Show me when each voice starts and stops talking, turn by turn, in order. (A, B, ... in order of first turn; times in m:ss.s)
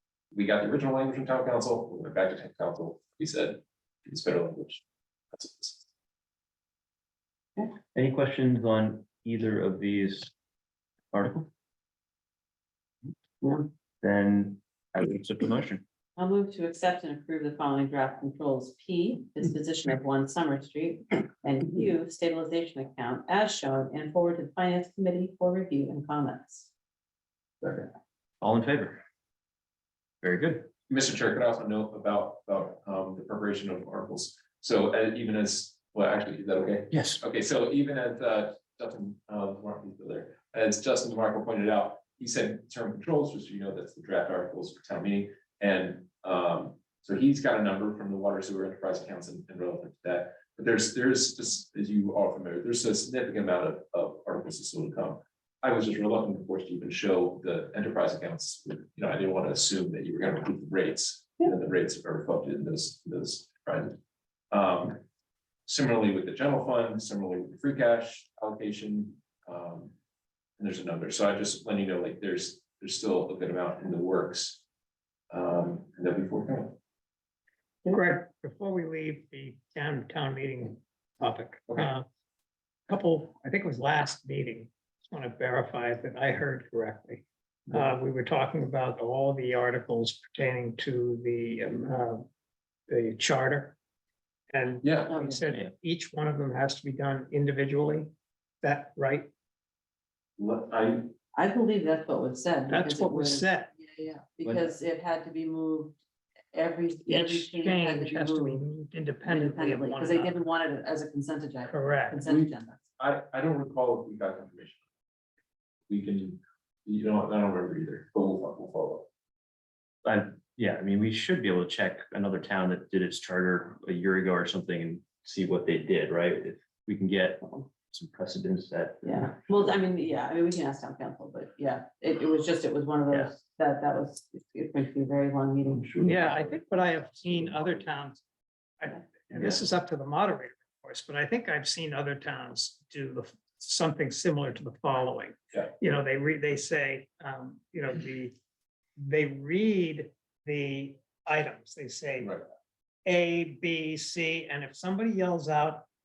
0:00.3-0:05.8 A
0:07.9-0:10.3 B
0:11.1-0:11.5 B
0:13.4-0:13.7 C
0:14.0-0:15.8 B
0:16.2-0:26.7 C
0:27.6-0:27.9 A
0:28.4-0:29.0 B
0:30.2-0:30.7 B
0:30.9-1:04.0 A
0:36.9-0:37.2 B
1:04.5-1:05.0 A
1:05.7-1:09.9 A
1:10.6-1:14.6 A
1:15.3-1:16.8 A
1:17.9-1:22.1 D
1:22.9-1:32.3 D
1:32.9-1:33.8 D
1:34.5-1:39.3 D
1:34.8-1:35.1 A
1:35.1-1:35.4 C
1:40.4-1:41.1 A
1:41.3-1:46.0 C
1:42.7-1:43.7 D
1:44.4-1:44.7 B
1:46.5-1:48.6 C
1:47.1-1:50.3 D
1:49.3-1:52.8 C
1:51.7-1:52.2 D
1:52.3-1:54.8 A
1:55.9-1:59.1 A
2:00.0-2:09.3 B
2:09.0-2:15.9 C
2:15.7-2:17.8 B
2:16.0-2:18.2 D
2:18.8-2:28.4 D
2:19.3-2:19.6 B
2:29.0-2:32.4 D
2:33.1-2:35.9 D